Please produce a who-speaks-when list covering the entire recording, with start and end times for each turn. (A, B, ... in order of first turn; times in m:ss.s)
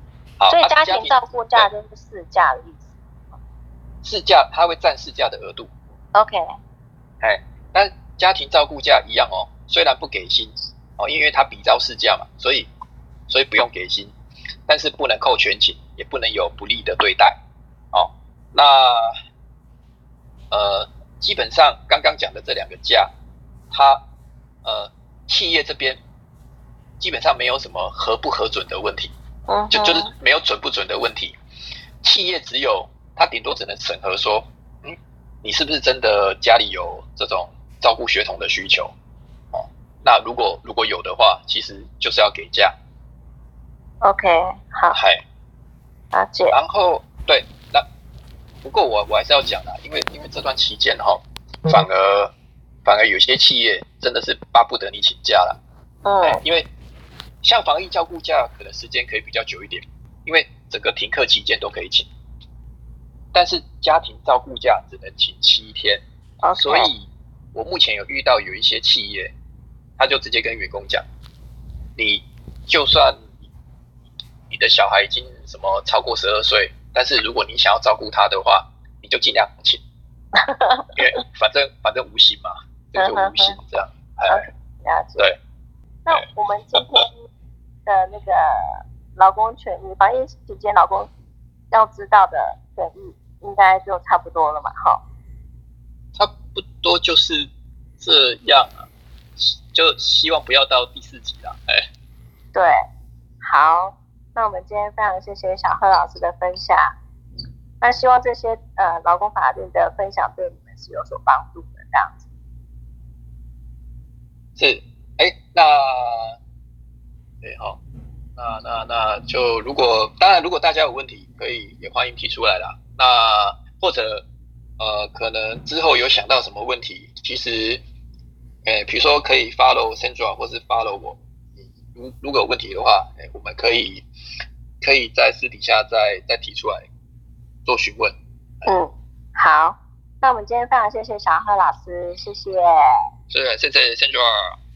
0:00.4-0:01.7 A
0:00.5-0:03.0 B
0:04.0-0:05.7 A
0:06.2-0:06.5 B
0:07.2-0:12.7 A
0:13.3-0:14.1 A
0:14.7-0:17.4 A
0:17.9-0:19.1 A
0:20.5-0:23.1 A
0:23.7-0:24.0 A
0:24.6-0:26.0 A
0:27.0-0:29.1 A
0:29.5-0:30.1 B
0:29.7-0:31.4 A
0:32.0-0:38.9 A
0:39.5-0:42.8 A
0:44.0-0:45.0 B
0:44.9-0:45.2 A
0:46.1-0:46.6 B
0:46.5-0:47.9 A
0:48.6-0:52.3 A
0:52.8-0:55.6 A
0:56.0-0:56.4 B
0:56.2-0:56.7 A
0:57.4-1:02.1 A
1:03.3-1:06.0 A
1:06.4-1:06.9 B
1:06.6-1:09.3 A
1:10.0-1:11.0 A
1:12.0-1:13.3 A
1:14.5-1:19.8 A
1:20.4-1:20.9 B
1:21.0-1:24.5 A
1:23.0-1:23.6 B
1:24.3-1:25.3 B
1:26.1-1:27.3 B
1:26.8-1:27.0 A
1:27.9-1:31.1 B
1:31.7-1:35.0 B
1:36.2-1:41.9 A
1:43.4-1:47.0 B
1:47.8-1:52.3 B
1:54.6-1:56.4 A
1:57.4-1:57.8 A
1:58.4-2:04.2 A
2:04.8-2:07.8 A
2:08.6-2:14.1 A
2:14.8-2:16.9 A
2:17.6-2:18.2 A
2:18.6-2:22.9 B
2:23.3-2:24.5 A